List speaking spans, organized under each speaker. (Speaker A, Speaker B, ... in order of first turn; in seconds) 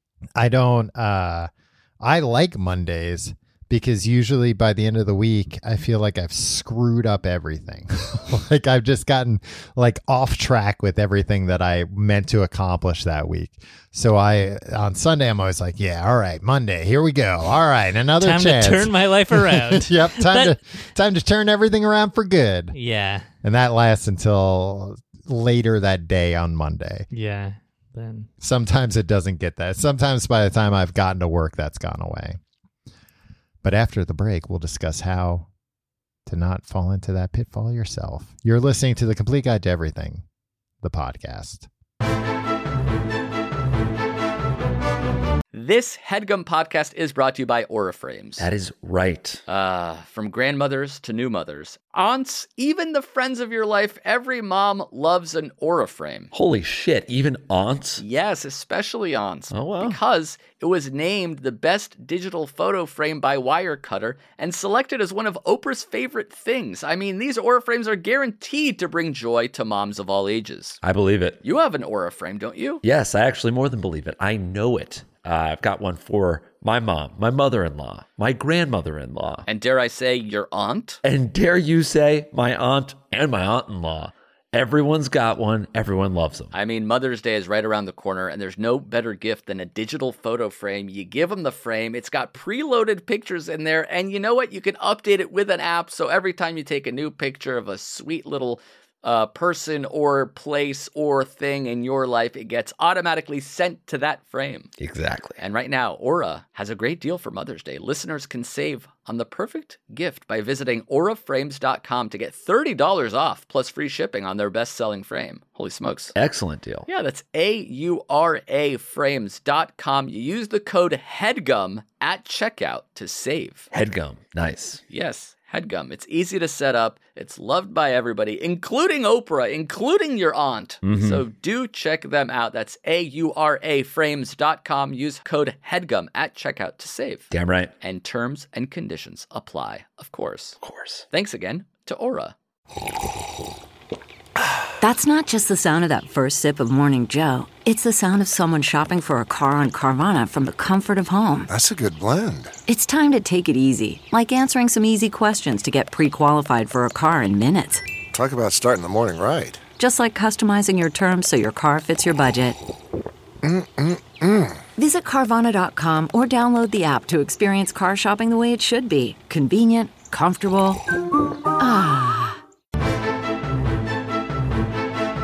Speaker A: 0.3-22.7, 23.4-27.1, 28.4-32.4, 33.6-35.5, 36.2-40.2, 40.8-41.7
Speaker B: 18.2-20.6, 22.7-23.3, 27.1-28.3
Speaker C: 45.5-48.5, 49.5-56.3, 58.0-70.8, 71.4-72.8, 79.5-81.0, 86.5-104.7, 105.4-116.1, 116.9-123.7, 124.9-137.3, 137.8-140.6, 141.1-142.3
Speaker D: 48.4-49.4, 56.3-58.0, 59.5-60.0, 70.8-71.4, 72.8-79.5, 81.0-86.5, 104.8-105.4, 116.1-116.9, 123.7-124.8, 130.8-131.2, 137.3-137.7, 140.6-141.0
Speaker E: 144.8-151.5, 152.7-157.8, 159.8-162.6, 164.8-170.8, 171.6-172.4
Speaker F: 151.5-152.5, 158.1-159.6, 163.4-164.6